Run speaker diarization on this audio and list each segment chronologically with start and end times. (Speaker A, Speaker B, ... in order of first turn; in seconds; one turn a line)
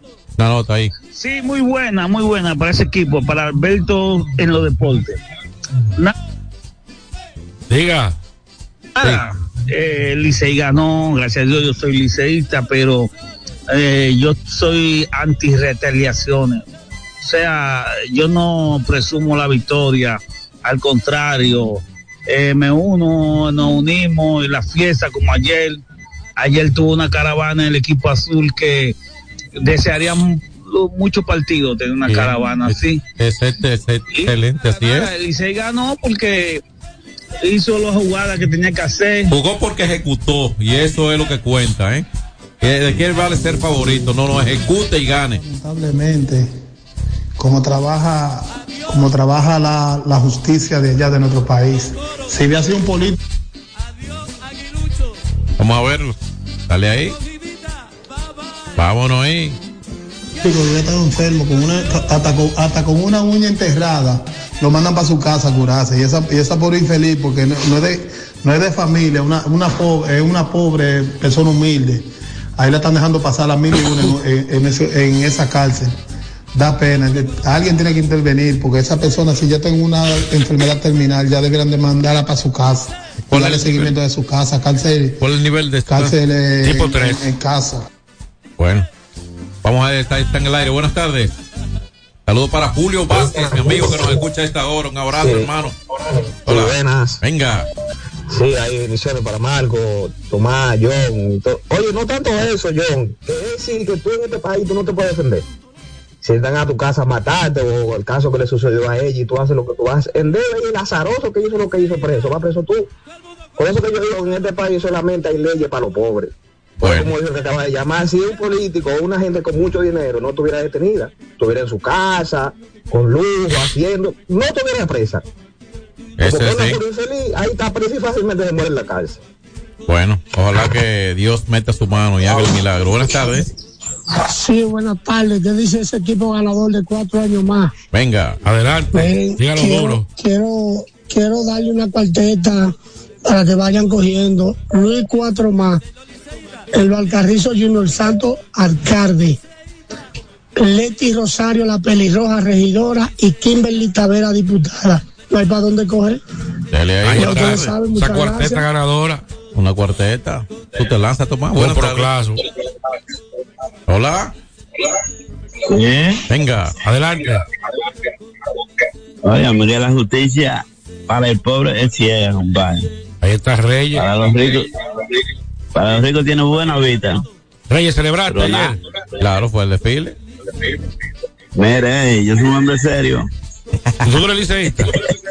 Speaker A: 0.4-0.9
Speaker B: 1.1-5.2
Speaker C: 7.7-8.2
Speaker B: 9.0-13.1
Speaker B: 13.7-16.6
Speaker B: 17.2-25.8
Speaker B: 26.4-28.9
Speaker B: 29.6-33.0
Speaker A: 32.0-35.1
Speaker B: 34.8-36.6
Speaker B: 37.4-39.3
Speaker A: 39.3-42.0
Speaker A: 42.6-45.4
Speaker D: 45.4-46.5
Speaker D: 47.4-53.1
Speaker A: 55.6-56.1
Speaker A: 56.7-57.2
Speaker A: 58.7-59.6
Speaker D: 60.4-72.1
Speaker D: 72.6-76.0
Speaker D: 76.5-85.2
Speaker A: 83.3-83.9
Speaker A: 85.2-86.2
Speaker D: 85.9-87.8
Speaker C: 86.6-87.2
Speaker A: 88.6-88.9
Speaker A: 89.6-91.3
Speaker A: 92.3-95.7
Speaker E: 93.1-94.2
Speaker E: 95.1-95.5
Speaker E: 96.4-97.2
Speaker A: 96.5-97.7
Speaker E: 98.3-105.4
Speaker E: 106.2-112.9
Speaker E: 113.6-125.2
Speaker A: 116.8-117.1
Speaker A: 126.2-126.8
Speaker E: 126.2-129.2
Speaker A: 129.8-133.5
Speaker F: 134.1-137.7
Speaker A: 137.9-138.4
Speaker C: 138.4-140.1
Speaker F: 138.9-142.7
Speaker F: 143.2-145.8
Speaker F: 146.7-149.4
Speaker F: 150.6-156.2
Speaker A: 156.7-157.8
Speaker C: 157.1-159.2
Speaker F: 157.2-158.6
Speaker A: 159.5-162.1
Speaker C: 161.6-162.4
Speaker A: 163.9-164.3
Speaker G: 165.7-166.2
Speaker A: 166.3-166.8
Speaker C: 166.8-167.4
Speaker G: 169.2-172.9
Speaker C: 173.2-174.1
Speaker G: 173.9-175.0
Speaker G: 175.7-177.2
Speaker C: 177.7-178.8
Speaker G: 178.3-178.8
Speaker A: 179.2-180.2
Speaker G: 181.5-183.3
Speaker C: 184.0-184.9